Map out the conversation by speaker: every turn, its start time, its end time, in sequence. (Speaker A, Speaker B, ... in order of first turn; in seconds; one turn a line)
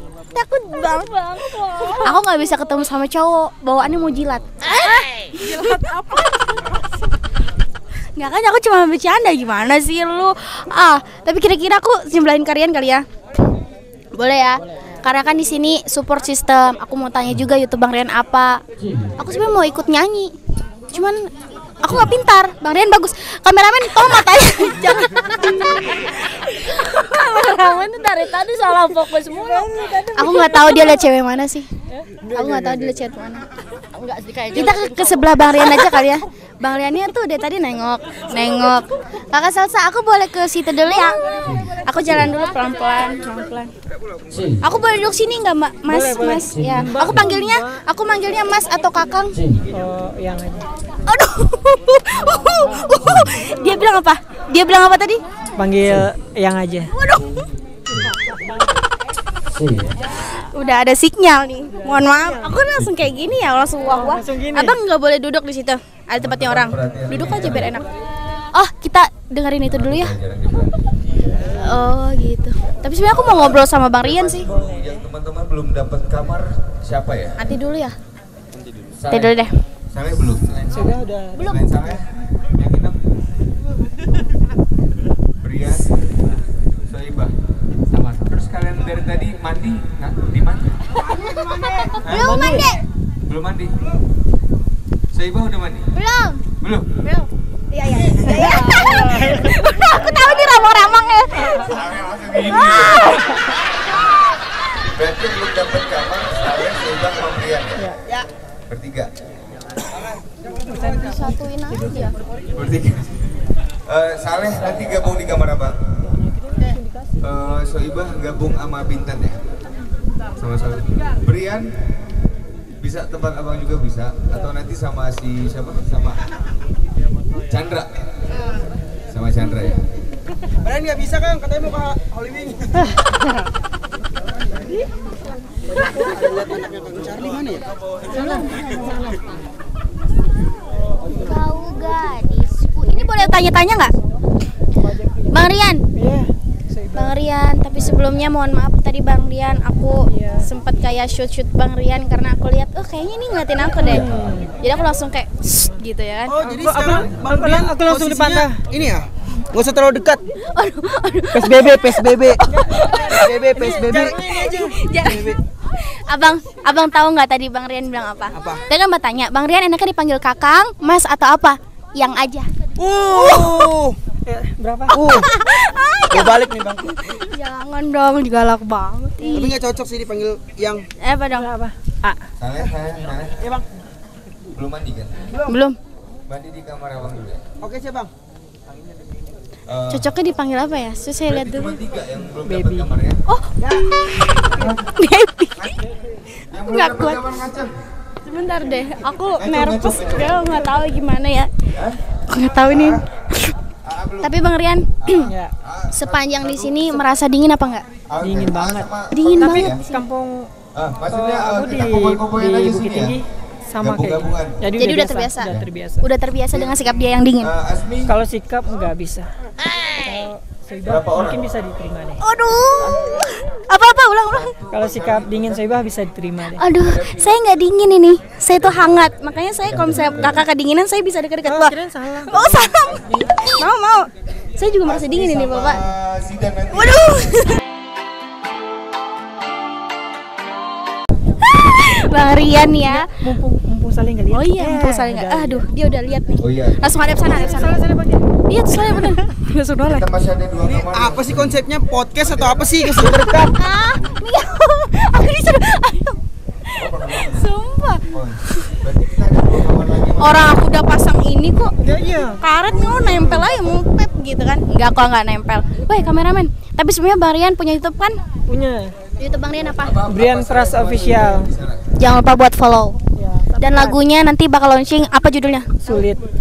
Speaker A: 0.3-6.2
Speaker B: 1.1-2.0
Speaker A: 8.2-13.0
Speaker A: 14.1-18.6
Speaker A: 19.2-20.3
Speaker A: 20.9-21.3
Speaker A: 21.8-26.4
Speaker B: 26.1-31.0
Speaker A: 30.1-31.7
Speaker B: 31.9-32.7
Speaker A: 32.3-33.5
Speaker B: 33.9-36.0
Speaker A: 34.5-43.7
Speaker A: 44.6-49.5
Speaker C: 45.9-47.8
Speaker C: 49.7-50.7
Speaker A: 51.1-55.2
Speaker C: 55.6-56.9
Speaker A: 56.9-57.3
Speaker A: 60.3-67.9
Speaker C: 64.0-64.8
Speaker D: 66.2-67.8
Speaker A: 68.5-70.1
Speaker D: 69.7-71.5
Speaker A: 71.5-74.5
Speaker D: 73.0-77.4
Speaker A: 77.4-78.0
Speaker D: 79.0-79.4
Speaker A: 79.1-79.5
Speaker D: 79.9-80.9
Speaker C: 80.7-81.4
Speaker D: 81.5-83.0
Speaker D: 85.4-85.9
Speaker D: 86.9-87.3
Speaker D: 87.9-90.8
Speaker A: 91.2-92.8
Speaker E: 91.5-91.8
Speaker D: 92.0-92.4
Speaker C: 92.2-92.7
Speaker D: 93.3-93.8
Speaker D: 95.1-95.9
Speaker A: 96.0-96.4
Speaker D: 96.6-96.9
Speaker A: 97.0-101.8
Speaker D: 101.7-103.0
Speaker A: 102.4-103.1
Speaker D: 104.8-107.9
Speaker D: 108.7-109.1
Speaker A: 110.8-112.2
Speaker D: 112.5-116.0
Speaker D: 117.2-119.4
Speaker D: 120.4-121.7
Speaker D: 122.8-126.2
Speaker D: 127.5-127.9
Speaker D: 129.1-129.8
Speaker E: 130.6-132.8
Speaker E: 135.9-137.7
Speaker A: 138.2-138.6
Speaker A: 141.1-143.9
Speaker A: 145.3-145.8
Speaker C: 145.9-147.1
Speaker A: 146.9-156.4
Speaker C: 150.2-150.5
Speaker D: 153.8-154.4
Speaker C: 154.0-154.5
Speaker E: 156.3-160.2
Speaker C: 156.4-158.6
Speaker A: 160.4-163.3
Speaker E: 161.3-162.5
Speaker C: 162.5-164.2
Speaker E: 163.0-165.4
Speaker A: 164.1-172.5
Speaker E: 168.3-168.6
Speaker E: 172.8-174.0
Speaker A: 173.1-173.6
Speaker C: 174.3-175.0
Speaker A: 174.9-179.6
Speaker E: 174.9-175.3
Speaker E: 176.1-176.9
Speaker E: 179.3-180.9
Speaker A: 181.0-181.5
Speaker C: 181.4-182.2
Speaker D: 182.4-183.4
Speaker E: 183.4-183.7
Speaker D: 184.5-185.3
Speaker E: 185.3-185.6
Speaker A: 185.5-185.8
Speaker D: 186.3-187.4
Speaker E: 187.6-188.1
Speaker D: 189.7-190.2
Speaker A: 189.9-191.8
Speaker D: 191.3-193.2
Speaker C: 192.4-192.9
Speaker A: 193.3-195.7
Speaker E: 193.6-193.8
Speaker D: 194.5-194.9
Speaker D: 196.5-197.8
Speaker A: 196.7-197.2
Speaker A: 198.2-201.5
Speaker D: 199.4-200.7
Speaker D: 201.7-202.0
Speaker A: 202.3-203.5
Speaker D: 202.7-203.0
Speaker D: 203.8-204.4
Speaker A: 204.2-205.3
Speaker D: 205.0-207.0
Speaker C: 205.3-205.5
Speaker A: 205.9-207.8
Speaker D: 208.1-209.8
Speaker C: 208.2-208.9
Speaker A: 209.1-210.0
Speaker C: 209.4-210.5
Speaker D: 210.7-213.2
Speaker C: 211.1-216.1
Speaker D: 213.8-214.6
Speaker A: 214.8-217.5
Speaker D: 215.4-215.7
Speaker D: 217.4-218.1
Speaker C: 218.1-219.3
Speaker C: 220.0-222.2
Speaker D: 220.8-221.5
Speaker A: 222.2-224.5
Speaker D: 222.8-223.2
Speaker D: 224.3-225.8
Speaker C: 224.7-226.7
Speaker A: 226.5-231.8
Speaker D: 226.8-227.4
Speaker D: 228.5-230.4
Speaker C: 231.4-232.4
Speaker A: 232.3-235.9
Speaker D: 232.6-233.7
Speaker D: 234.8-237.1
Speaker A: 236.7-237.6
Speaker A: 241.4-243.1
Speaker C: 242.9-245.7
Speaker A: 244.3-247.8
Speaker D: 246.4-247.7
Speaker C: 247.3-248.3
Speaker A: 248.5-250.1
Speaker D: 249.9-251.6
Speaker E: 250.6-253.6
Speaker D: 252.2-252.8
Speaker A: 252.9-258.7
Speaker D: 253.3-254.2
Speaker D: 256.8-257.5
Speaker D: 258.1-260.6
Speaker A: 260.2-268.2
Speaker C: 261.8-262.4
Speaker C: 268.5-269.0
Speaker A: 269.2-270.0
Speaker D: 269.8-271.8
Speaker C: 270.1-271.5
Speaker A: 271.9-273.0
Speaker C: 273.2-274.0
Speaker A: 273.6-276.0
Speaker C: 275.8-276.2